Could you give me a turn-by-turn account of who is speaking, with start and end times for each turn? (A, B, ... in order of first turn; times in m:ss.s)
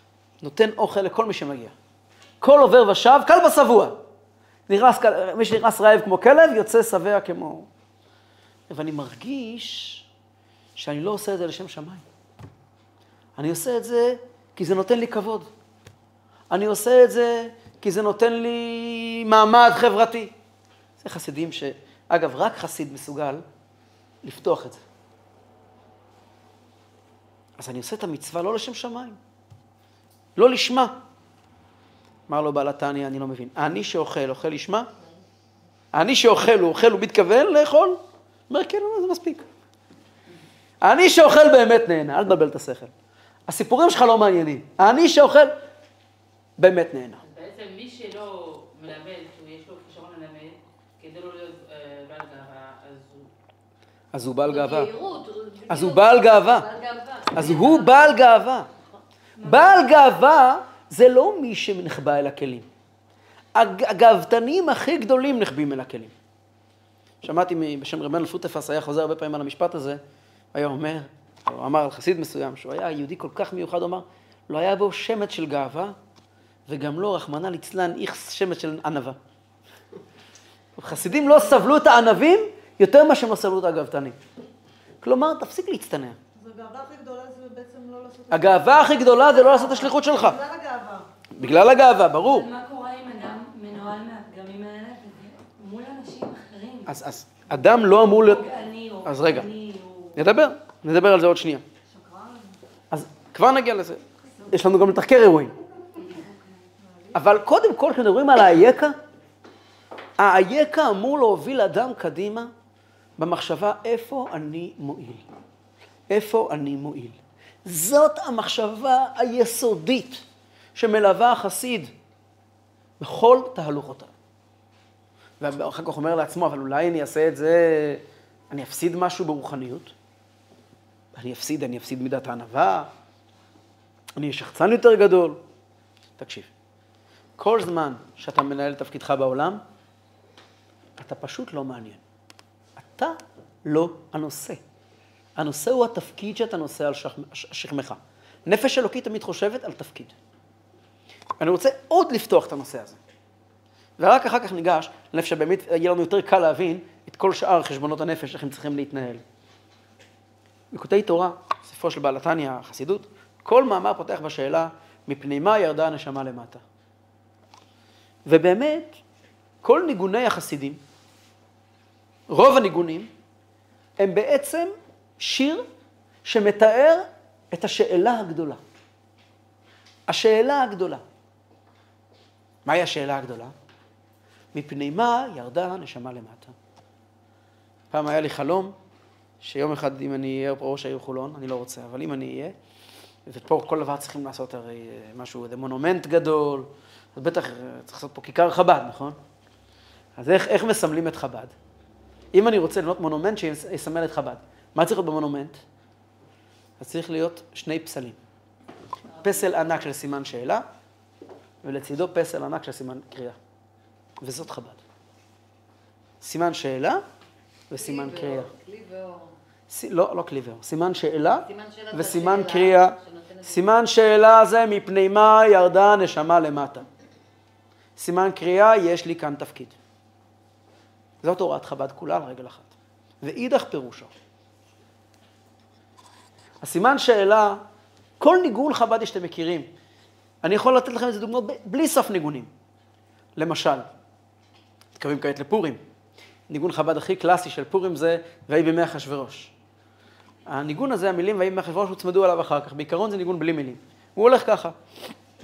0:00.4-0:01.7 A
0:02.4-0:04.0 A
0:04.7-0:07.7 A
0:08.7-0:10.0 A
0:10.8-0:12.0 A
0:13.4-0:15.5 A
0:16.5-0:20.3 A
0:21.0-0:23.4 A
0:24.2-0:24.8 A
0:27.6-0:29.2 A
0:30.4-0:31.0 A
0:32.3-0:34.9 A
0:35.9-0:39.4 A
0:40.8-0:42.9 A
0:43.5-0:45.5 A
0:46.6-0:47.2 A
0:47.2-0:53.3 B
0:54.1-0:54.9 A
0:54.5-0:58.2 C
0:55.7-0:56.7 A
0:57.3-0:58.7 A
0:59.4-1:02.7 A
1:03.5-1:06.1 A
1:07.2-1:10.0 A
1:10.5-1:16.0 A
1:16.7-1:19.2 A
1:20.8-1:24.2 A
1:25.0-1:26.2 A
1:26.4-1:31.1 D
1:28.3-1:30.4 A
1:31.3-1:32.5 A
1:32.1-1:36.9 E
1:36.9-1:38.5 A
1:37.6-1:40.2 E
1:39.0-1:39.5 A
1:40.1-1:41.6 A
1:41.9-1:42.6 D
1:42.9-1:45.5 A
1:46.1-1:46.6 E
1:46.8-1:47.1 D
1:47.1-1:49.0 A
1:50.2-1:52.5 A
1:53.2-1:55.2 A
1:56.1-2:00.2 A
2:00.8-2:01.9 A
2:03.0-2:04.1 A
2:05.4-2:09.9 A
2:11.2-2:12.9 A
2:14.2-2:15.4 A
2:16.2-2:16.5 A
2:17.4-2:19.6 A
2:21.0-2:22.0 A
2:22.8-2:24.6 A
2:25.4-2:30.1 A
2:31.4-2:33.0 A
2:34.0-2:39.2 A
2:40.7-2:46.6 A
2:48.2-2:49.0 A
2:49.6-2:50.8 A
2:52.3-2:53.1 A
2:54.0-2:55.6 A
2:56.2-2:58.6 A
3:00.1-3:01.0 A
3:02.6-3:03.5 A
3:04.5-3:06.5 A
3:07.9-3:08.8 A
3:09.4-3:12.5 A
3:13.2-3:19.2 A
3:20.2-3:21.5 A
3:22.3-3:25.6 A
3:26.8-3:28.2 A
3:29.2-3:30.6 A
3:31.6-3:33.4 A
3:34.2-3:34.8 A
3:36.2-3:37.0 A
3:37.7-3:38.5 A
3:37.7-3:39.4 C
3:39.7-3:46.8 A
3:41.4-3:43.6 C
3:48.0-3:49.7 A
3:51.2-3:52.7 A
3:53.2-3:54.1 A
3:56.6-3:57.6 A
3:58.2-3:59.7 A
4:00.4-4:02.5 A
4:03.4-4:03.8 A
4:05.0-4:05.8 A
4:06.5-4:09.5 A
4:10.5-4:14.8 A